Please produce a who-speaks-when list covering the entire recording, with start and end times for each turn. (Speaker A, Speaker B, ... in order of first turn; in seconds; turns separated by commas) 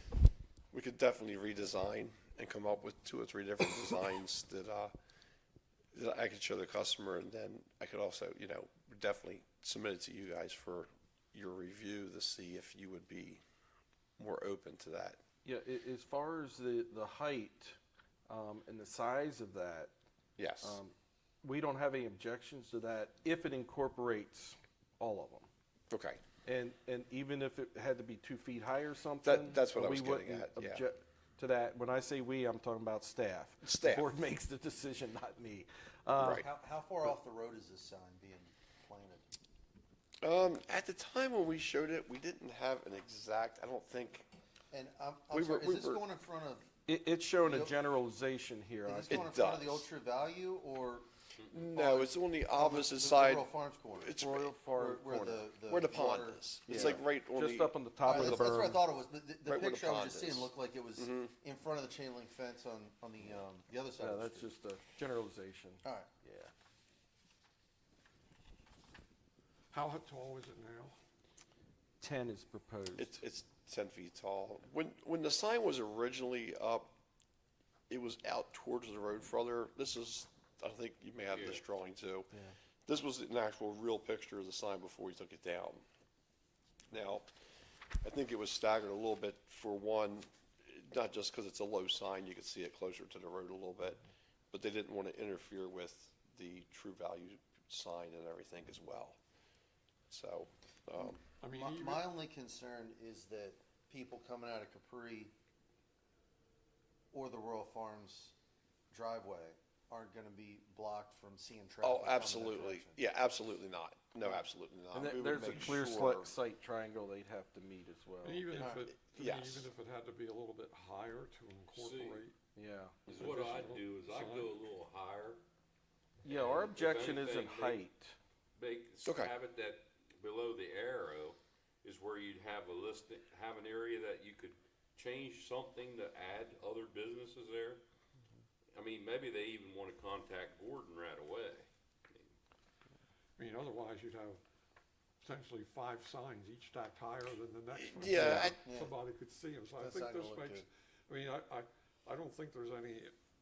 Speaker A: 0.7-4.9, Speaker A: 5.9-13.4, Speaker A: 14.2-15.2, Speaker B: 15.4-19.9, Speaker A: 20.4-20.8, Speaker B: 20.6-25.5, Speaker A: 25.9-26.2, Speaker B: 26.5-36.5, Speaker A: 29.2-30.8, Speaker A: 33.6-34.1, Speaker A: 36.2-36.5, Speaker C: 36.3-39.2, Speaker A: 40.2-44.3, Speaker C: 44.7-46.7, Speaker A: 45.3-46.0, Speaker B: 46.9-49.2, Speaker C: 47.4-47.8, Speaker C: 48.9-51.1, Speaker A: 49.1-49.9, Speaker A: 51.5-54.5, Speaker C: 51.7-54.2, Speaker B: 54.2-55.5, Speaker C: 54.8-57.0, Speaker A: 55.7-58.5, Speaker B: 56.7-58.8, Speaker C: 58.0-64.5, Speaker A: 59.5-61.3, Speaker B: 64.0-66.5, Speaker C: 65.8-66.1, Speaker D: 69.7-71.0, Speaker B: 72.0-73.2, Speaker A: 73.0-76.9, Speaker A: 77.9-82.3, Speaker E: 81.3-81.6, Speaker A: 82.9-85.8, Speaker A: 86.9-87.2, Speaker A: 88.0-99.2, Speaker A: 100.1-101.2, Speaker D: 101.4-102.1, Speaker C: 101.5-105.3, Speaker C: 107.1-108.3, Speaker C: 108.9-113.0, Speaker A: 111.8-116.3, Speaker B: 114.9-118.6, Speaker D: 118.2-122.3, Speaker C: 118.6-118.9, Speaker A: 119.0-119.7, Speaker E: 121.7-122.2, Speaker B: 122.6-123.0, Speaker E: 123.1-125.4, Speaker D: 123.1-124.6, Speaker B: 126.2-128.2, Speaker E: 126.2-127.8, Speaker E: 128.6-137.8, Speaker A: 129.0-129.3, Speaker E: 138.7-142.3, Speaker D: 143.4-144.4, Speaker D: 145.2-153.1, Speaker A: 147.8-148.6, Speaker C: 148.2-148.9, Speaker C: 149.8-150.7